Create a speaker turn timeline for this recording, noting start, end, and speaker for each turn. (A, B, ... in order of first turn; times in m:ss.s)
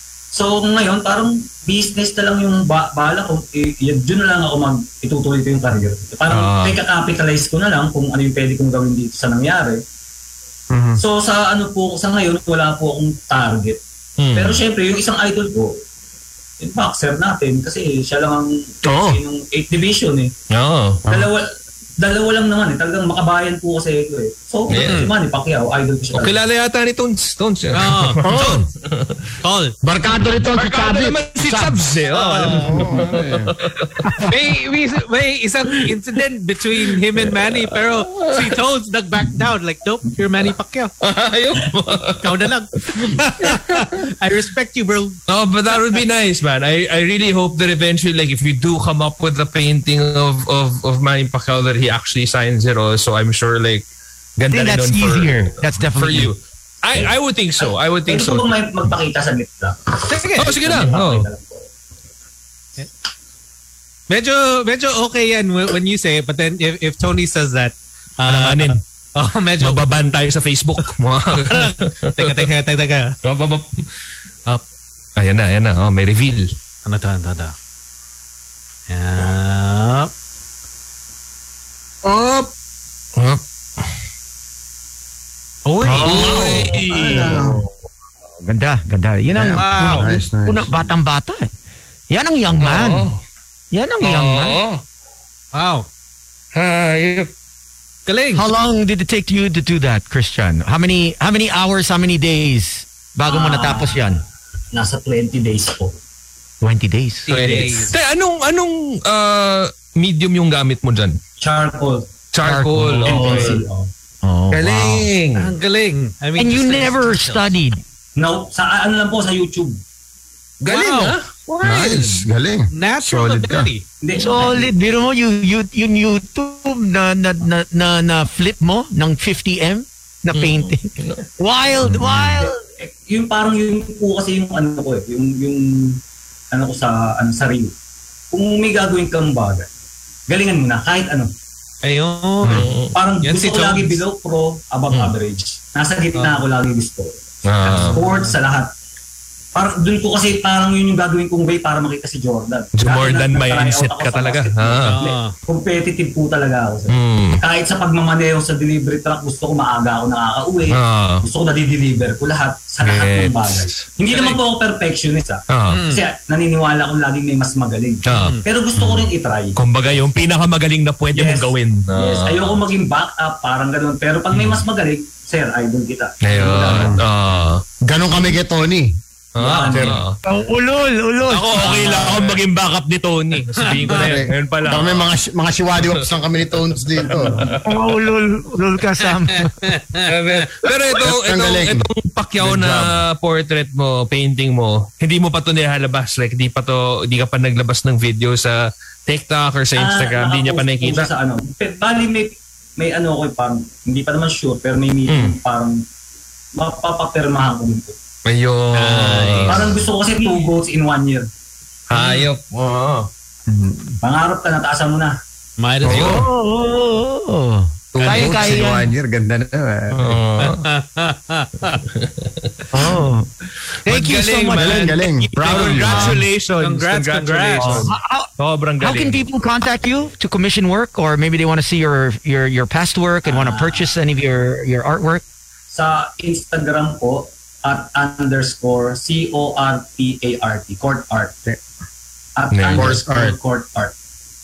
0:00.3-0:09.8 A
0:06.3-0:06.8 B
0:10.7-0:11.0 C
0:11.0-0:13.8 A
0:14.2-0:14.6 B
0:14.3-0:15.8 A
0:16.6-0:20.3 A
0:18.8-0:19.2 C
0:20.5-0:21.1 B
0:21.1-0:21.4 A
0:22.0-0:26.4 A
0:24.7-0:25.0 B
0:24.7-0:25.1 D
0:26.1-0:29.3 B
0:27.7-0:28.6 D
0:28.2-0:28.6 C
0:29.4-0:29.7 D
0:29.8-0:31.8 C
0:30.5-0:34.0 B
0:32.1-0:32.9 D
0:32.6-0:34.3 C
0:34.2-0:40.9 D
0:36.7-0:37.5 B
0:38.1-0:38.5 B
0:41.0-0:42.3 B
0:42.2-0:45.2 D
0:42.9-0:44.0 B
0:45.3-0:58.5 B
0:54.5-0:56.3 E
0:57.6-1:01.6 A
1:00.0-1:00.8 D
1:00.4-1:01.3 B
1:04.1-1:10.0 D
1:08.3-1:08.8 B
1:09.6-1:12.4 B
1:11.3-1:13.2 D
1:13.2-1:13.9 B
1:15.2-1:16.5 B
1:16.8-1:17.5 D
1:18.9-1:20.1 D
1:22.0-1:22.5 C
1:23.2-1:23.4 B
1:25.6-1:26.6 D
1:25.8-1:27.7 E
1:26.0-1:27.4 B
1:26.0-1:27.6 C
1:28.4-1:31.5 E
1:29.3-1:30.9 C
1:29.6-1:30.1 D
1:32.1-1:33.1 E
1:32.6-1:33.2 B
1:33.7-1:34.6 E
1:34.0-1:34.8 B
1:35.5-1:35.9 D
1:36.5-1:37.3 B
1:38.1-1:38.4 D
1:38.3-1:44.2 E
1:43.3-1:44.2 A
1:44.7-1:46.0 A
1:46.6-1:47.6 E
1:47.3-1:47.9 D
1:47.3-1:51.2 B
1:51.4-1:52.1 A
1:52.3-1:53.6 B
1:52.4-1:53.6 E
1:53.0-1:53.9 A
1:54.2-1:55.1 E
1:54.5-1:55.5 B
1:55.4-1:57.5 D
1:56.4-1:57.8 E
1:58.2-1:59.8 A
2:00.6-2:02.2 B
2:00.7-2:01.2 D
2:01.6-2:03.7 C
2:02.7-2:03.8 D
2:04.0-2:04.6 A
2:04.1-2:12.6 E
2:10.3-2:11.2 B
2:11.9-2:12.3 B
2:12.4-2:16.0 A
2:16.5-2:17.7 A
2:18.3-2:19.7 A
2:20.3-2:21.3 A
2:21.8-2:22.7 D
2:22.4-2:22.9 B
2:22.9-2:28.7 A
2:23.2-2:24.0 D
2:26.1-2:26.4 D
2:27.4-2:28.0 B
2:27.7-2:28.4 D
2:29.5-2:49.6 A
2:32.8-2:35.0 B
2:34.8-2:35.3 D
2:36.9-2:37.4 B
2:40.7-2:41.2 B
2:42.8-2:43.9 B
2:44.1-2:44.4 D
2:45.5-2:45.8 B
2:45.7-2:46.0 D
2:48.0-2:48.4 B
2:48.1-2:48.4 D
2:48.8-2:49.1 C
2:49.6-2:52.6 B
2:51.1-2:57.0 A
2:54.3-2:54.6 B
2:56.2-2:57.6 B
2:56.7-2:57.0 C
2:57.8-2:58.9 C
2:59.3-3:00.2 B
2:59.4-3:00.0 A
2:59.7-3:00.0 C
3:00.2-3:01.9 E
3:01.3-3:05.1 B
3:01.6-3:02.3 D
3:03.6-3:04.1 D
3:03.9-3:07.5 C
3:05.8-3:06.0 B
3:06.8-3:07.6 B
3:07.6-3:09.7 E
3:09.3-3:10.5 D
3:10.1-3:21.1 B
3:11.0-3:11.8 C
3:12.4-3:13.0 C
3:19.8-3:25.8 A
3:25.1-3:25.4 B
3:26.6-3:28.0 A
3:28.2-3:29.9 B
3:28.7-3:29.6 D
3:29.5-3:31.3 A
3:31.9-3:33.1 B
3:33.5-3:34.0 C
3:34.0-3:35.2 A
3:35.6-3:36.2 D
3:35.8-3:36.3 C
3:35.9-3:36.2 B
3:35.9-3:38.9 E
3:37.9-3:40.2 C
3:38.0-3:38.7 B
3:39.9-3:40.6 B
3:40.4-3:41.8 D
3:41.8-3:42.5 B
3:42.7-3:43.3 E
3:43.8-3:46.2 E
3:43.8-3:49.2 B
3:44.5-3:46.2 C
3:46.6-3:47.9 D
3:47.6-3:48.3 E
3:48.8-3:55.2 E
3:53.3-3:53.9 A
3:55.7-4:01.4 A
4:02.4-4:03.9 A
4:02.5-4:03.0 B
4:02.7-4:03.4 C